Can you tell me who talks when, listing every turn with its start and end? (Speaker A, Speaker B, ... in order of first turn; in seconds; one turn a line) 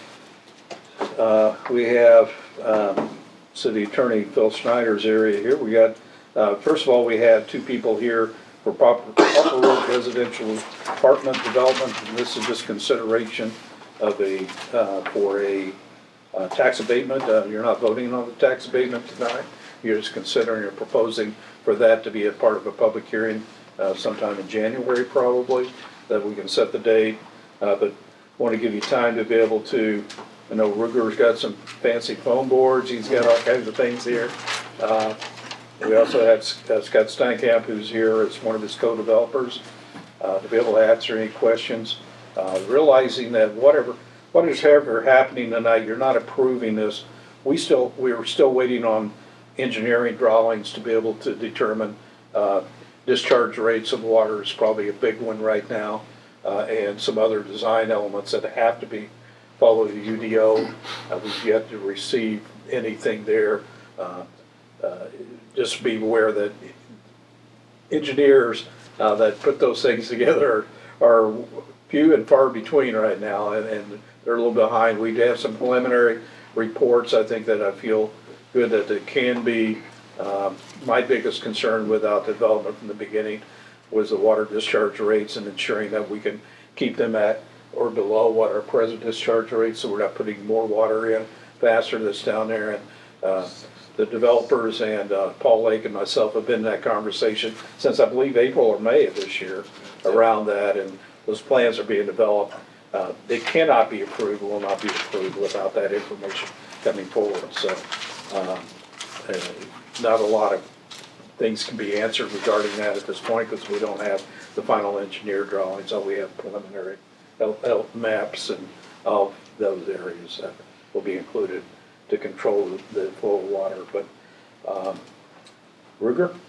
Speaker A: 1.0-15.8
Speaker A: 16.3-35.2
Speaker A: 35.8-39.6
Speaker A: 40.2-64.3
Speaker A: 64.8-66.7
Speaker A: 67.9-108.7
Speaker A: 109.2-110.6
Speaker A: 111.4-124.0
Speaker A: 124.6-125.0
Speaker A: 126.0-126.3